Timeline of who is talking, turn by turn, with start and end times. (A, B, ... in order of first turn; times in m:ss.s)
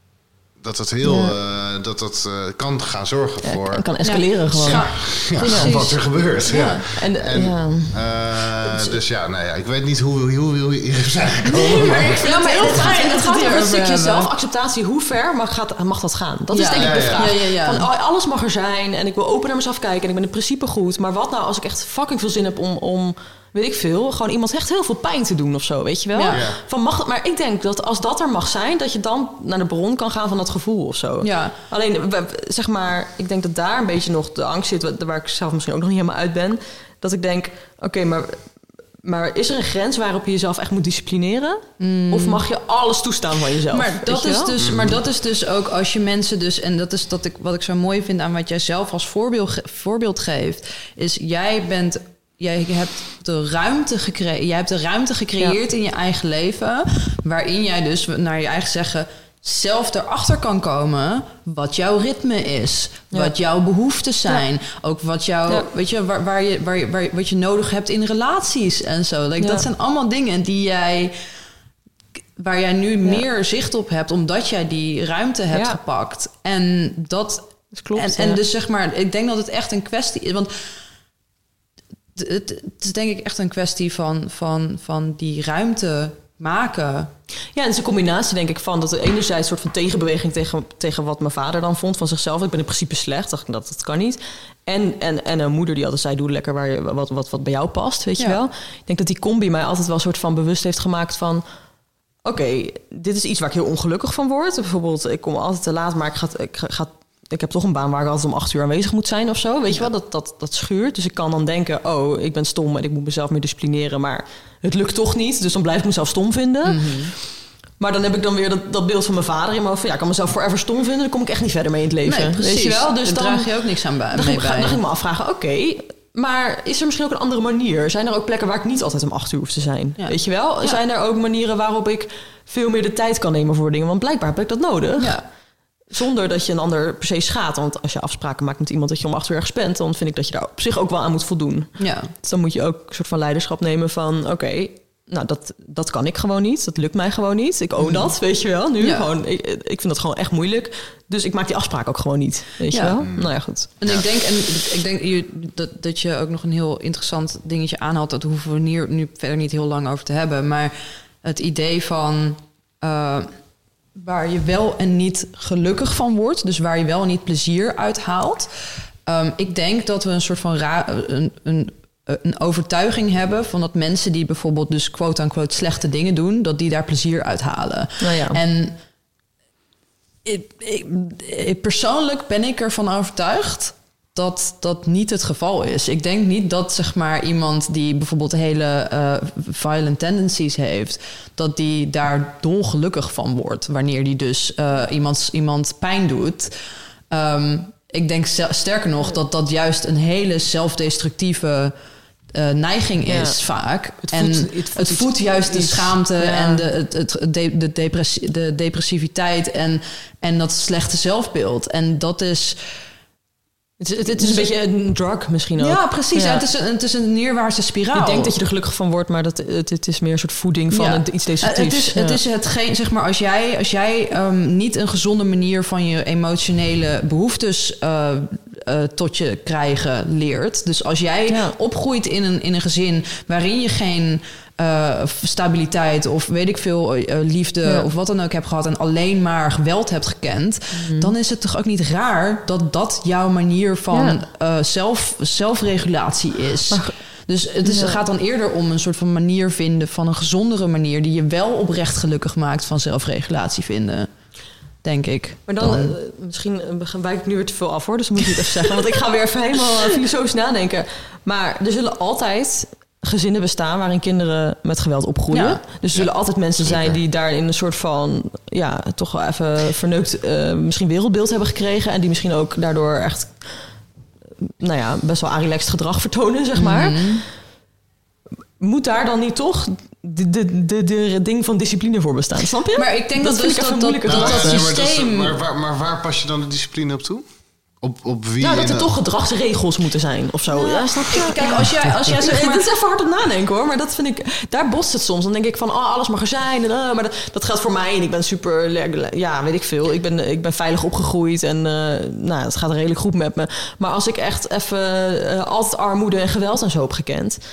0:00.6-0:03.9 A
0:01.0-0:01.4 B
0:03.4-0:05.8 B
0:04.0-0:06.8 C
0:04.5-0:12.3 A
0:06.8-0:09.0 B
0:11.6-0:14.3 C
0:12.1-0:38.4 B
0:16.5-0:17.9 C
0:16.8-0:17.3 A
0:26.1-0:26.4 C
0:26.3-0:26.6 A
0:31.2-0:31.6 C
0:39.0-0:44.6 B
0:41.8-0:42.4 C
0:43.7-1:11.1 C
0:44.6-0:45.0 A
1:09.4-1:09.7 B
1:12.4-1:20.5 C
1:15.5-1:15.8 B
1:17.7-1:18.4 B
1:22.2-1:27.1 C
1:27.5-1:41.4 B
1:42.2-1:57.1 B
1:56.6-1:57.1 C
1:57.8-2:03.5 B
2:02.0-2:04.8 C
2:04.1-2:15.2 B
2:10.0-2:10.8 C
2:15.0-2:15.2 C
2:15.9-2:33.7 B
2:21.8-2:22.1 C
2:27.8-2:28.1 C
2:28.8-2:29.1 C
2:32.7-2:33.1 C
2:33.8-2:43.3 C
2:44.0-2:48.5 C
2:49.0-2:58.8 C
2:58.0-2:58.4 B
3:00.2-3:16.5 C
3:17.1-3:21.7 C
3:22.3-3:32.7 C
3:23.0-3:23.4 B
3:24.0-3:26.6 B
3:33.8-3:36.4 B
3:34.1-3:34.5 C
3:35.6-3:38.3 C
3:37.9-3:42.2 B
3:40.7-4:14.1 C
3:51.3-3:51.5 B
4:00.7-4:01.1 B
4:03.9-4:04.2 B
4:06.7-4:06.9 B
4:07.6-4:08.0 B
4:14.8-4:16.0 C
4:15.5-4:33.7 B
4:25.3-4:25.6 C
4:25.9-4:27.0 A
4:34.4-4:37.2 B
4:36.6-4:37.2 C
4:38.6-4:44.6 B
4:42.7-4:45.4 C
4:44.1-4:47.2 A
4:47.8-4:49.0 A
4:48.4-5:07.4 B
4:50.5-4:52.7 C